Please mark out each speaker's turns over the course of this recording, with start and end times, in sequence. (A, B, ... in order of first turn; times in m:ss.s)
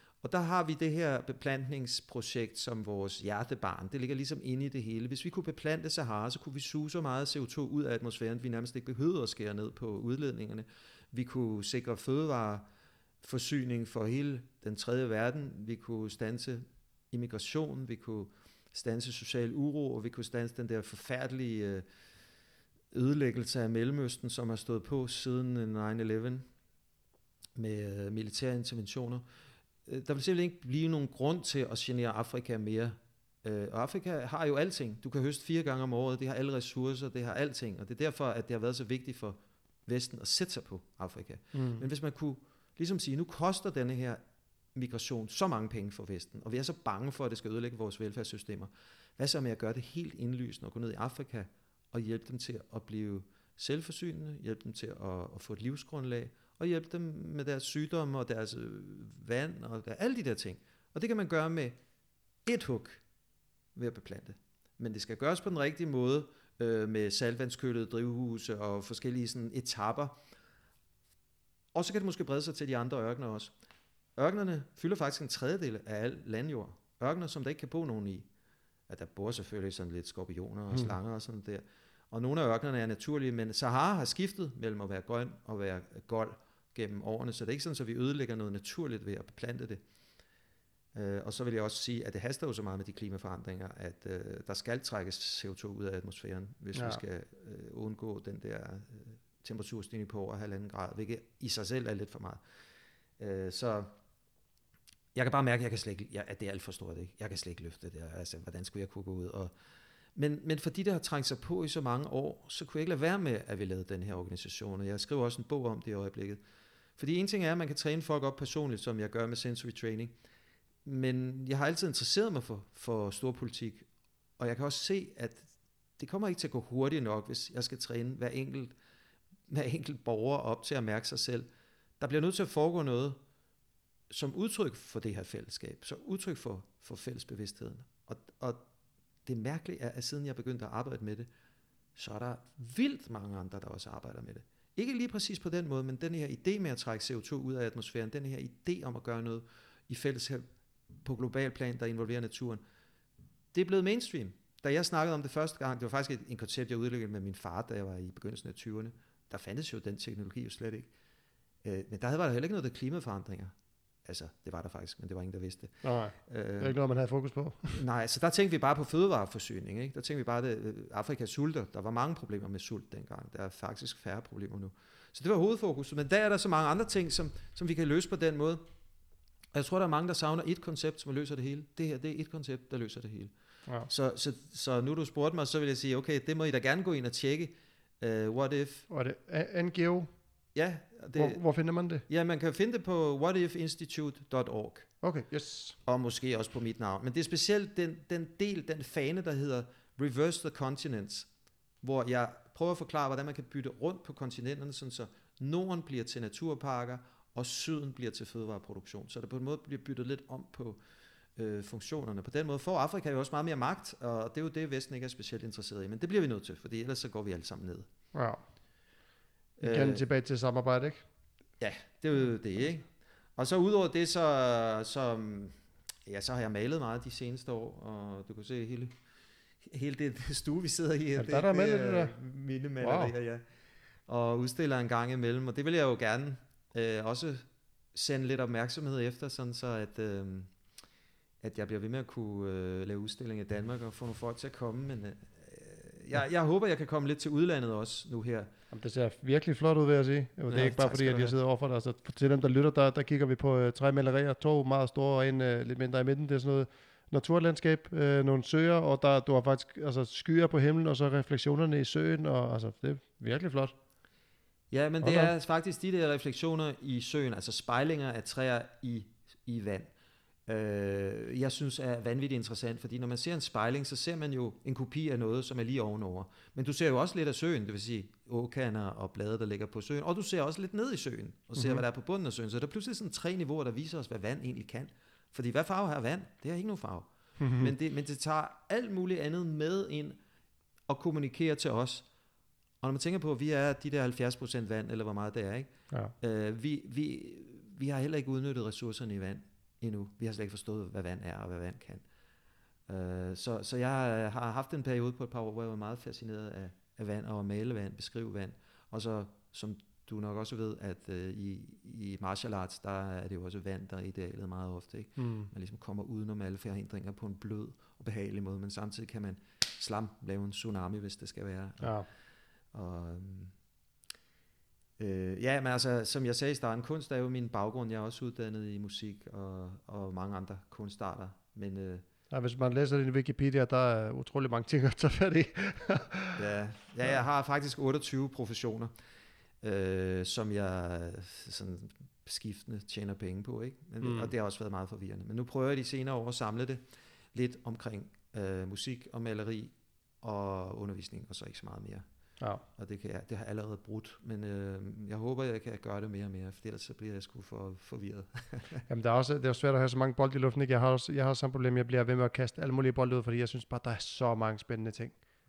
0:00.2-0:12.7 A
0:13.2-0:21.8 A
0:22.9-0:26.4 A
0:27.6-0:29.2 A
0:29.9-0:44.2 A
0:41.5-0:41.9 B
0:44.8-1:01.8 A
1:02.5-1:03.0 A
1:03.8-1:10.2 A
1:11.7-1:13.5 A
1:14.2-1:18.3 A
1:18.9-1:29.8 A
1:30.9-1:42.4 A
1:36.8-1:37.0 B
1:43.2-1:44.0 A
1:45.2-1:49.5 A
1:50.2-1:56.4 A
1:57.0-2:00.2 A
2:00.8-2:03.9 A
2:04.4-2:08.7 A
2:09.5-2:11.5 A
2:12.0-2:13.2 A
2:14.1-2:18.6 A
2:19.3-2:21.3 A
2:22.0-2:32.6 A
2:33.5-2:40.9 A
2:41.6-2:43.5 A
2:44.0-2:46.8 A
2:45.8-2:47.8 B
2:47.7-2:58.6 A
2:59.5-3:03.3 A
3:03.9-3:08.9 A
3:08.9-3:10.1 B
3:10.6-3:11.4 A
3:11.2-3:12.0 B
3:12.1-3:14.9 A
3:15.0-3:15.8 B
3:15.8-3:21.3 A
3:21.8-3:30.8 A
3:31.4-3:37.9 A
3:38.1-3:38.4 B
3:39.6-3:40.0 A
3:39.6-3:41.0 B
3:41.6-3:49.0 A
3:49.6-3:53.5 A
3:51.2-3:52.2 B
3:52.8-3:53.1 B
3:54.1-4:00.5 A
4:01.4-4:08.5 A
4:08.7-4:23.8 B
4:10.5-4:11.4 A
4:24.7-4:29.9 A
4:25.0-4:25.3 B
4:30.5-4:50.2 A
4:41.6-4:41.8 B
4:47.4-4:47.7 B
4:50.9-4:52.1 A
4:52.8-4:55.7 A
4:56.2-5:02.0 A
5:02.9-5:22.0 A
5:15.2-5:15.5 B
5:21.8-5:22.1 B
5:22.7-5:23.5 A
5:25.0-5:32.0 A
5:32.3-5:36.4 B
5:36.4-5:38.9 A
5:39.6-5:46.8 A
5:44.0-5:44.3 B
5:47.3-5:52.0 A
5:52.8-5:58.9 A
5:58.9-6:05.2 B